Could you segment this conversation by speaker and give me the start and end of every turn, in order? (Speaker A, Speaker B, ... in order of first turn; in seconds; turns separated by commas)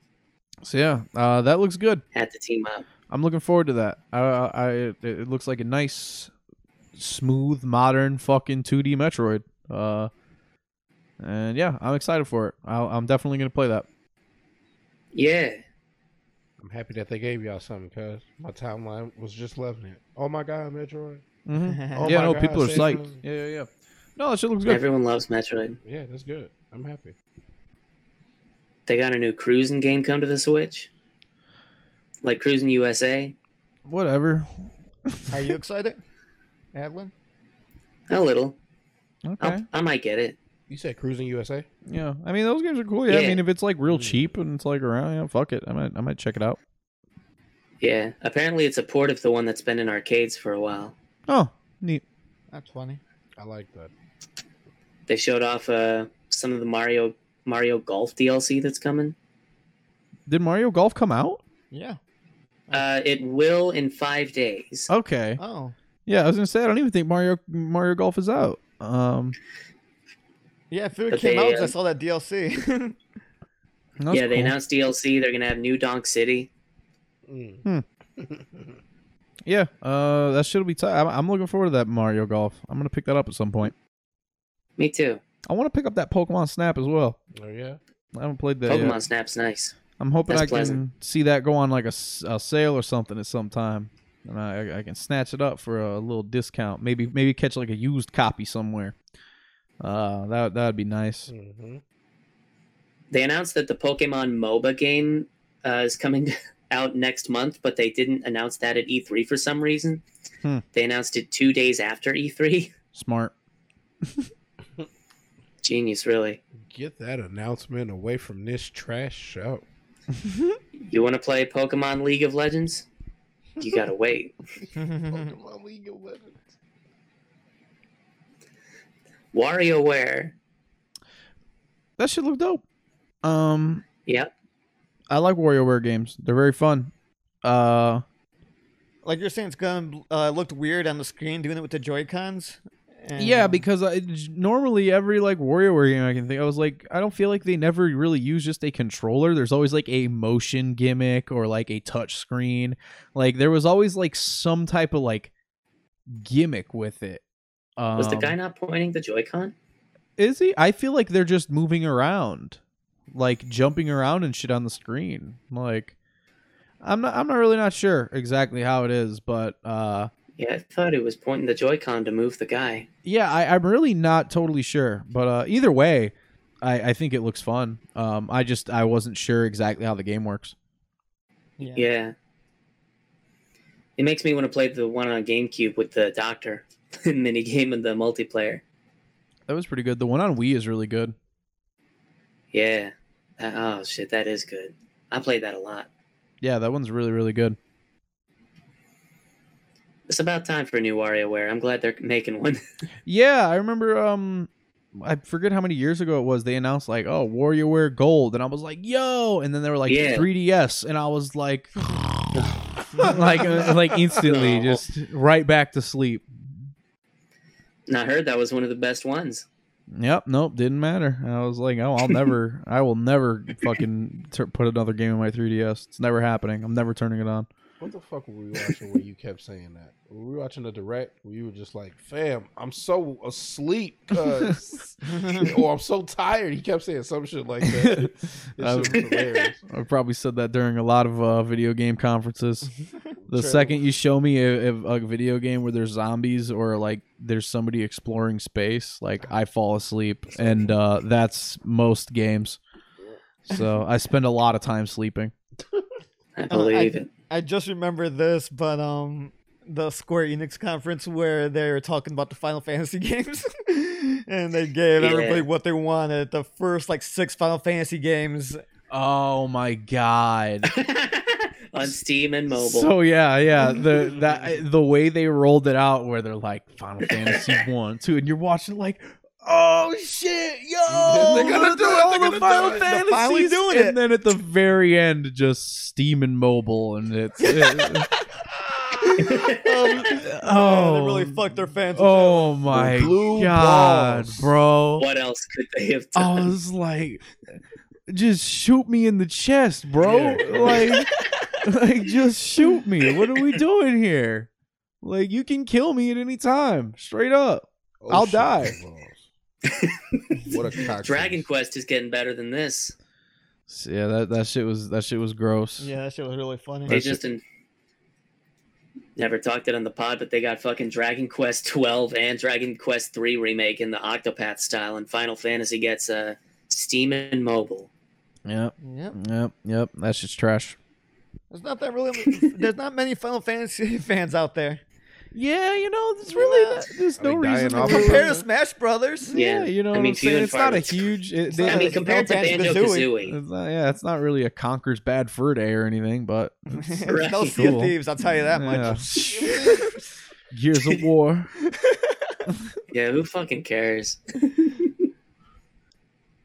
Speaker A: 0.6-2.0, Speaker B: 2.1-2.9, Speaker A: 3.1-6.3, Speaker A: 7.0-10.1, Speaker A: 11.2-13.9, Speaker B: 15.1-15.6, Speaker C: 16.6-21.2, Speaker A: 21.5-24.8, Speaker D: 21.6-22.2, Speaker C: 21.9-23.2, Speaker B: 24.7-25.8, Speaker C: 25.8-27.1, Speaker B: 28.9-30.9, Speaker B: 32.2-33.4, Speaker A: 33.9-35.5, Speaker D: 35.3-36.0, Speaker D: 36.7-37.1, Speaker B: 38.1-38.6, Speaker A: 39.2-39.6, Speaker B: 39.4-40.4, Speaker C: 40.7-41.7, Speaker A: 41.9-46.6, Speaker B: 43.1-43.4, Speaker C: 43.9-44.3, Speaker B: 47.8-50.9, Speaker A: 51.3-52.0, Speaker D: 52.5-53.0, Speaker C: 53.4-53.9, Speaker B: 55.1-59.1, Speaker A: 60.3-61.4, Speaker D: 61.7-62.0, Speaker B: 62.7-64.9, Speaker A: 64.9-65.4, Speaker D: 65.4-65.8, Speaker A: 66.1-69.4, Speaker D: 70.7-73.0, Speaker B: 71.1-71.7, Speaker A: 74.0-74.5, Speaker B: 74.1-76.5, Speaker C: 77.3-77.6, Speaker C: 78.2-78.8, Speaker A: 79.5-83.7, Speaker B: 84.8-85.2, Speaker A: 85.5-87.2, Speaker C: 87.4-87.8, Speaker A: 88.1-89.0, Speaker B: 88.7-89.8, Speaker A: 90.0-99.0, Speaker B: 90.3-90.8, Speaker A: 99.8-101.3, Speaker C: 101.3-101.8, Speaker B: 103.1-110.0, Speaker B: 110.7-112.7, Speaker A: 112.9-113.3, Speaker B: 115.6-116.4, Speaker C: 116.6-119.7, Speaker A: 120.2-120.6, Speaker B: 120.8-122.9, Speaker B: 123.6-124.3, Speaker C: 124.6-126.5, Speaker D: 124.8-125.3, Speaker B: 129.3-130.3, Speaker A: 132.0-132.6, Speaker A: 133.2-133.8, Speaker A: 135.1-136.9, Speaker A: 137.4-138.0, Speaker D: 139.0-143.7, Speaker A: 143.2-155.3, Speaker A: 156.1-157.2, Speaker A: 157.8-158.4, Speaker B: 158.0-159.5, Speaker A: 160.2-162.6, Speaker A: 163.1-165.9, Speaker A: 166.8-170.1, Speaker B: 170.4-172.9, Speaker A: 173.1-180.6, Speaker D: 181.6-181.9, Speaker B: 181.7-182.1, Speaker B: 184.0-188.6, Speaker A: 189.5-191.2, Speaker B: 192.5-195.9, Speaker A: 196.4-197.6, Speaker B: 200.1-202.6, Speaker A: 203.1-211.9, Speaker B: 209.9-210.3, Speaker A: 213.0-216.3, Speaker B: 214.2-214.8, Speaker B: 217.9-219.5, Speaker A: 219.9-227.5, Speaker C: 227.8-239.6, Speaker D: 235.1-235.5, Speaker A: 237.6-239.0, Speaker B: 239.0-239.5, Speaker A: 239.7-242.7, Speaker C: 243.2-243.8, Speaker A: 243.3-252.6, Speaker C: 250.4-250.7, Speaker A: 253.5-255.3, Speaker B: 256.4-257.1, Speaker D: 256.5-268.6, Speaker B: 265.0-265.5, Speaker A: 268.9-270.7, Speaker B: 270.7-272.9, Speaker A: 272.5-288.1, Speaker B: 277.1-277.6, Speaker C: 280.9-282.9, Speaker D: 281.2-281.7, Speaker D: 282.4-284.0, Speaker D: 287.5-288.0, Speaker D: 288.9-292.7, Speaker B: 289.2-290.0, Speaker A: 290.0-291.4, Speaker A: 291.9-295.1, Speaker C: 292.7-294.5, Speaker B: 295.0-296.5, Speaker A: 296.2-297.2, Speaker A: 298.1-301.1, Speaker C: 300.0-300.9, Speaker A: 301.6-304.5, Speaker A: 305.0-308.8, Speaker C: 308.0-309.3, Speaker B: 309.6-312.9, Speaker C: 310.4-311.5, Speaker A: 313.7-315.9, Speaker D: 315.8-317.1, Speaker A: 316.9-317.2, Speaker B: 316.9-317.4, Speaker B: 319.2-327.9, Speaker A: 328.5-330.8, Speaker D: 328.8-329.2, Speaker D: 331.5-334.8, Speaker A: 335.3-338.3, Speaker D: 336.3-336.9, Speaker C: 337.2-338.5, Speaker D: 337.8-339.3, Speaker A: 339.2-342.0, Speaker B: 339.3-343.4, Speaker D: 341.5-343.1, Speaker A: 343.3-348.0, Speaker D: 346.8-349.9, Speaker B: 347.1-347.6, Speaker A: 348.5-349.7, Speaker C: 348.8-350.0, Speaker A: 350.5-351.5, Speaker D: 351.8-352.3, Speaker B: 352.9-354.9